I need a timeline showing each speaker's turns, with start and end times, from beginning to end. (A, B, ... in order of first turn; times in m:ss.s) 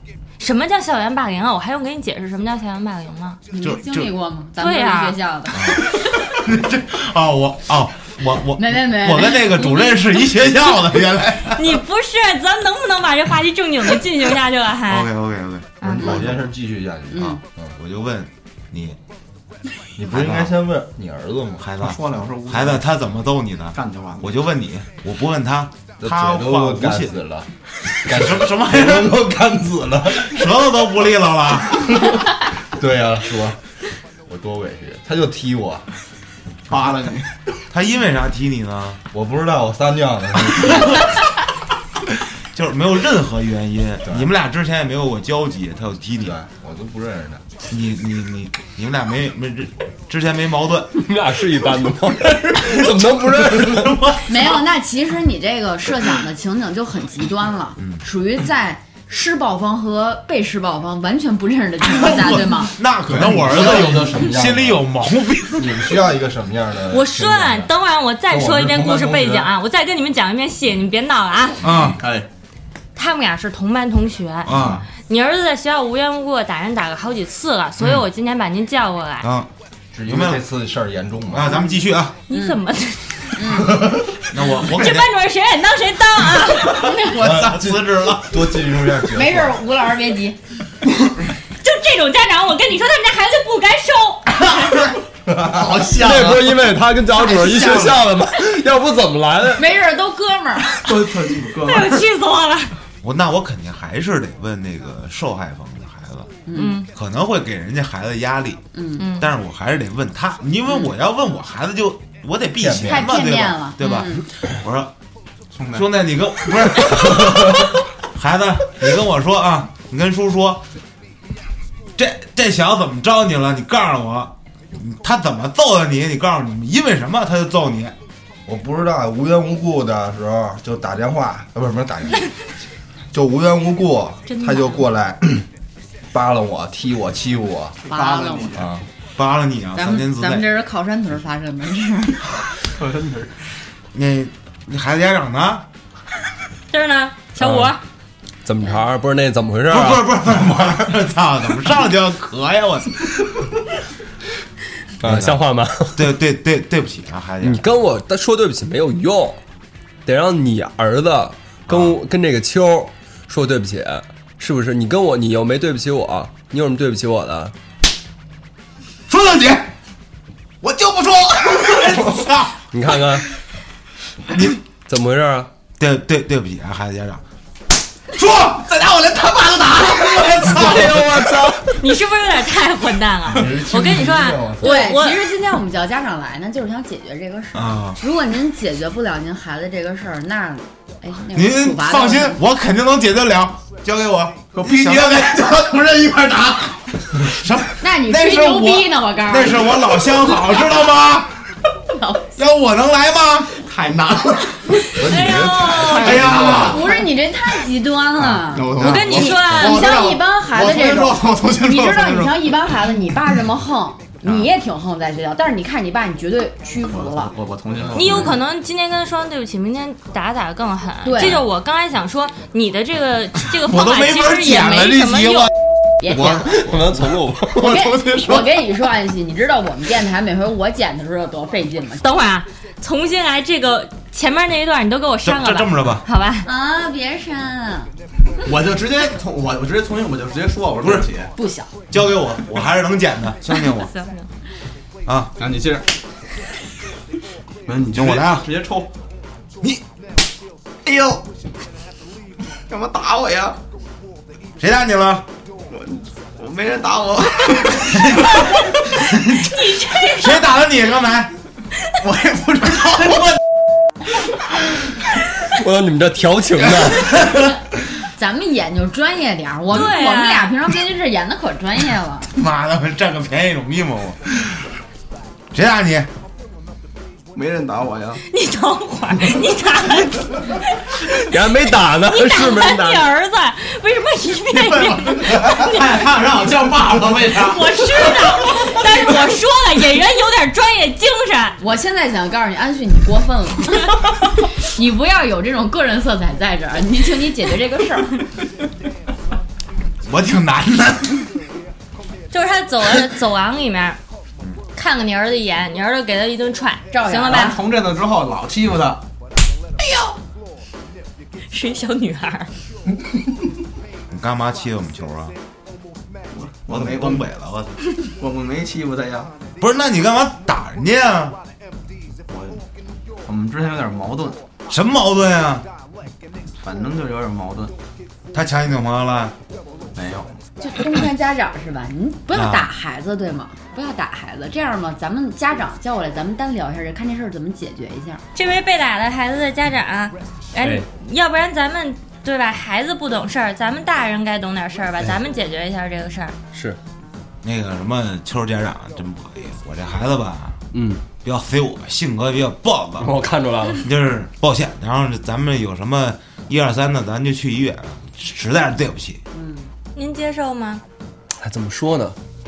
0:00.4-0:03.4 A
0:03.5-0:05.8 B
0:03.6-0:04.1 C
0:04.6-0:05.2 A
0:05.6-0:11.8 C
0:08.6-0:10.0 B
0:11.5-0:15.1 A
0:14.8-0:16.4 C
0:15.8-0:16.1 A
0:16.0-0:16.2 B
0:16.0-0:17.7 D
0:17.1-0:17.4 B
0:17.2-0:19.0 C
0:20.0-0:21.7 D
0:20.0-0:20.5 C
0:21.6-0:27.2 C
0:21.8-0:22.8 E
0:23.7-0:24.3 E
0:26.0-0:27.5 D
0:28.0-0:30.5 D
0:28.1-0:29.2 C
0:30.2-0:31.9 C
0:32.7-0:33.6 D
0:34.3-0:35.8 D
0:36.7-0:37.4 E
0:37.7-0:39.0 C
0:39.1-0:41.0 D
0:42.5-0:46.3 C
0:46.2-0:47.5 D
0:47.7-0:50.9 C
0:50.9-0:54.1 F
0:52.5-0:54.5 C
0:54.3-1:02.8 B
1:01.8-1:05.9 C
1:03.1-1:04.9 D
1:05.5-1:07.7 D
1:06.9-1:11.7 A
1:08.3-1:09.5 D
1:11.6-1:12.0 C
1:12.0-1:12.3 E
1:13.0-1:19.3 A
1:14.4-1:14.8 C
1:14.5-1:14.8 D
1:19.2-1:19.5 C
1:19.9-1:21.7 D
1:20.0-1:20.4 C
1:21.3-1:22.2 C
1:21.5-1:21.8 B
1:22.3-1:23.7 A
1:22.3-1:22.6 B
1:23.3-1:23.8 B
1:24.3-1:25.1 C
1:24.4-1:27.0 A
1:26.6-1:28.4 C
1:27.2-1:29.6 D
1:29.1-1:30.4 B
1:31.6-1:34.9 A
1:35.3-1:35.7 D
1:35.4-1:36.7 E
1:35.9-1:39.7 F
1:37.3-1:38.0 E
1:39.6-1:40.9 B
1:40.8-1:42.0 E
1:41.6-1:42.7 A
1:43.0-1:46.3 C
1:46.5-1:46.8 B
1:46.5-1:46.9 A
1:46.9-1:48.6 C
1:48.7-1:49.1 B
1:49.0-1:49.3 A
1:49.2-1:54.9 C
1:50.7-1:50.9 B
1:52.6-1:53.1 D
1:52.8-1:54.3 B
1:55.5-1:56.6 E
1:55.7-2:00.6 C
2:02.0-2:07.9 C
2:08.4-2:12.3 D
2:13.1-2:15.3 D
2:14.3-2:14.9 A
2:16.1-2:17.8 D
2:17.8-2:18.7 E
2:17.9-2:18.6 B
2:18.6-2:18.8 D
2:19.2-2:20.5 C
2:19.7-2:22.4 B
2:22.7-2:23.3 E
2:23.9-2:25.6 C
2:26.7-2:27.8 A
2:27.4-2:27.8 F
2:28.4-2:30.2 F
2:29.7-2:33.4 C
2:35.0-2:36.1 F
2:35.0-2:35.4 C
2:35.9-2:37.7 C
2:37.4-2:39.4 F
2:40.0-2:47.5 F
2:41.7-2:42.0 C
2:49.1-2:49.7 C
2:50.6-2:52.2 E
2:51.6-2:52.6 C
2:52.7-2:53.3 F
2:54.3-2:54.6 C
2:54.8-2:55.5 F
2:55.8-2:57.2 C
2:58.1-3:01.8 C
2:59.8-3:00.4 E
3:00.5-3:01.7 F
3:01.7-3:05.2 A
3:03.3-3:04.8 D
3:04.6-3:12.4 B
3:07.5-3:08.0 C
3:11.3-3:15.6 C
3:14.5-3:17.2 E
3:17.2-3:21.4 C
3:17.8-3:20.1 B
3:21.9-3:22.3 B
3:22.4-3:23.5 C
3:23.6-3:24.9 E
3:24.9-3:27.0 A
3:24.9-3:26.2 D
3:25.8-3:26.7 E
3:26.0-3:26.9 C
3:26.3-3:37.3 B
3:28.2-3:32.5 E
3:28.7-3:29.0 C
3:28.8-3:30.0 A
3:36.9-3:38.4 E
3:37.9-3:45.5 A
3:41.0-3:41.4 B
3:43.6-3:45.5 C
3:46.0-3:46.7 B
3:46.1-3:46.6 E
3:46.6-3:47.8 F
3:47.5-3:52.0 B
3:47.8-3:48.4 C
3:52.0-3:56.5 A
3:55.2-3:56.0 C
3:56.4-3:57.9 B
3:58.4-4:01.3 E
4:01.4-4:01.7 B
4:01.9-4:03.9 C
4:03.4-4:04.3 A
4:05.1-4:05.3 C
4:05.4-4:05.8 E
4:07.6-4:08.9 E
4:07.9-4:08.5 C
4:10.8-4:11.2 E
4:12.7-4:13.6 E
4:14.6-4:15.3 C
4:15.7-4:18.2 E
4:19.2-4:20.4 A
4:20.0-4:21.3 C
4:22.0-4:23.3 E
4:25.5-4:27.2 F
4:26.9-4:27.5 C
4:28.0-4:32.3 B
4:29.7-4:30.5 A
4:32.3-4:34.6 C
4:35.5-4:36.1 C
4:37.3-4:38.2 E
4:38.3-4:46.1 A
4:41.3-4:43.1 F
4:44.5-4:48.8 E
4:47.3-4:51.6 A
4:51.6-4:58.2 B
5:00.0-5:01.3 C
5:02.3-5:04.0 A
5:04.7-5:07.6 A
5:06.9-5:07.6 B
5:07.2-5:09.0 E
5:09.9-5:10.1 A
5:11.5-5:12.5 A
5:14.1-5:15.4 C
5:16.3-5:17.2 E
5:16.7-5:17.8 C
5:18.2-5:19.3 E
5:19.6-5:21.4 C
5:22.3-5:22.6 E
5:23.2-5:24.4 E
5:24.7-5:25.7 C
5:26.6-5:27.7 E
5:28.3-5:29.3 C
5:29.9-5:30.4 E
5:30.6-5:38.2 B
5:32.3-5:32.7 C
5:38.3-5:46.4 A
5:40.6-5:40.9 F
5:46.5-5:46.8 F
5:47.4-5:50.6 C
5:50.7-5:51.0 F
5:51.2-5:53.1 C
5:53.0-5:53.8 F
5:53.8-5:59.2 C
5:59.3-5:59.7 B
5:59.9-6:00.8 A
6:01.3-6:02.2 F